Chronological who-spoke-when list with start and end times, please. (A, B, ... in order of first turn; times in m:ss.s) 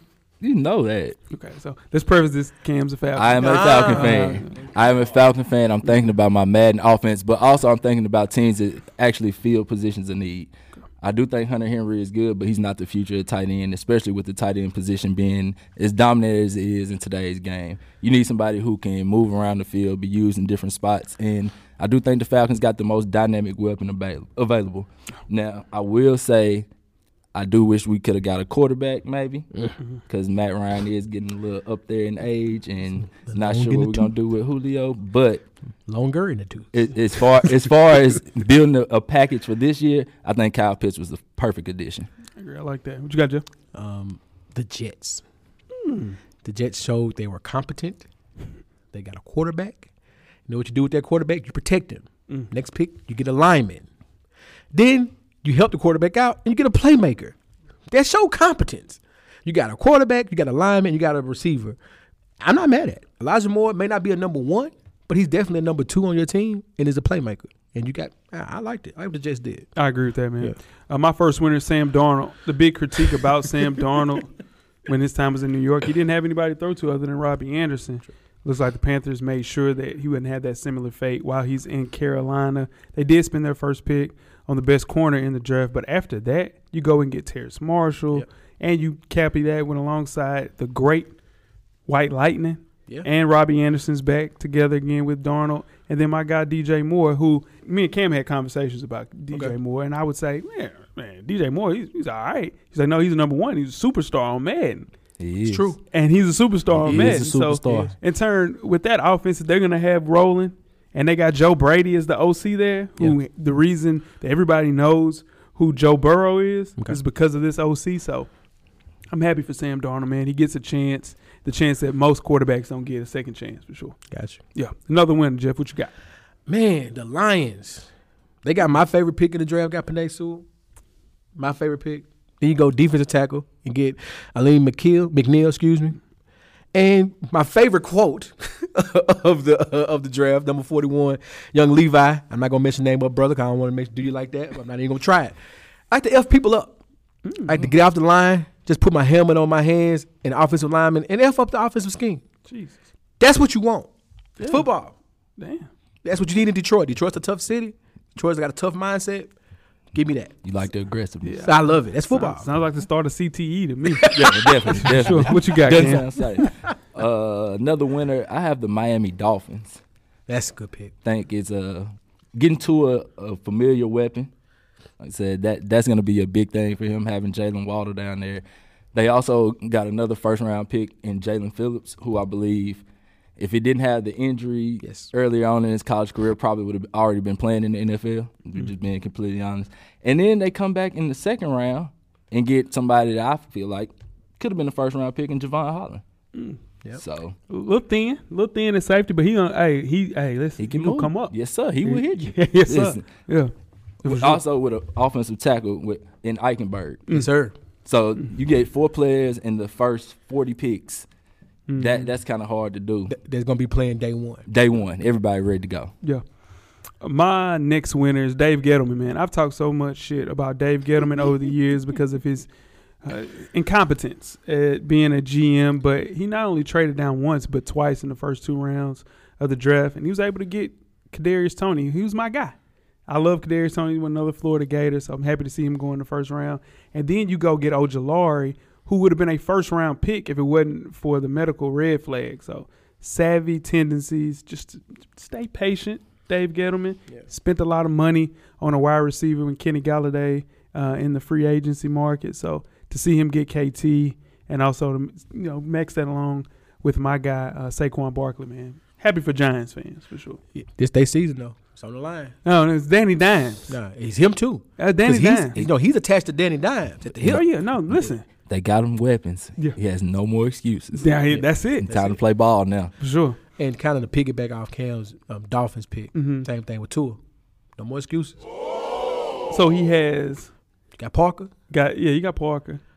0:00.4-0:01.2 A
0:01.3-0:04.5 B
0:03.2-0:26.7 A
0:03.4-0:04.4 C
0:27.3-0:35.4 A
0:33.1-0:34.1 C
0:35.9-0:37.7 C
0:36.7-0:42.1 A
0:42.4-0:43.4 B
0:43.7-0:45.2 C
0:45.8-0:46.2 B
0:46.4-0:48.1 C
0:48.9-0:49.9 C
0:50.5-0:53.9 C
0:54.7-0:57.4 C
0:57.9-1:01.8 C
1:02.4-1:09.7 C
1:09.8-1:14.3 B
1:14.9-1:31.2 B
1:31.9-1:44.9 B
1:45.2-1:45.7 A
1:45.4-1:45.8 C
1:45.9-1:58.3 B
1:46.7-1:47.9 A
1:46.8-1:47.9 C
1:59.1-2:04.0 B
2:04.1-2:04.4 C
2:04.6-2:05.9 B
2:06.5-2:07.9 C
2:08.4-2:10.5 C
2:11.4-2:16.0 C
2:16.7-2:25.4 C
2:25.9-2:26.8 C
2:27.2-2:27.6 B
2:27.4-2:32.2 C
2:32.5-2:32.8 B
2:33.2-2:35.0 C
2:34.4-2:34.7 B
2:35.4-2:35.7 B
2:36.0-2:39.3 C
2:39.9-2:40.4 C
2:40.4-2:41.5 A
2:41.2-2:46.1 B
2:41.4-2:42.5 C
2:43.9-2:45.4 C
2:44.1-2:49.8 A
2:50.3-2:50.9 C
2:51.0-2:54.3 A
2:55.0-2:58.4 A
2:58.9-3:02.8 A
3:03.4-3:16.0 A
3:04.8-3:05.1 C
3:16.3-3:16.6 B
3:17.0-3:17.4 A
3:17.5-3:21.3 B
3:20.6-3:23.1 A
3:21.8-3:23.5 B
3:24.0-3:24.4 B
3:24.0-3:27.1 A
3:27.1-3:27.6 C
3:27.8-3:31.1 A
3:31.7-3:32.1 B
3:31.8-3:33.1 A
3:33.1-3:34.5 C
3:34.5-3:35.9 A
3:37.0-3:42.5 B
3:43.0-4:20.4 B
4:20.6-4:22.4 C
4:22.4-4:23.8 B
4:23.7-4:27.4 C
4:24.8-4:25.6 B
4:27.2-4:28.3 B
4:27.9-4:32.9 A
4:31.0-4:31.9 B
4:31.9-4:32.2 C
4:33.0-4:33.4 B
4:33.6-4:37.2 C
4:36.1-4:36.5 B
4:37.8-4:38.4 C
4:39.5-4:40.5 B
4:41.0-4:41.5 C
4:41.7-4:42.8 B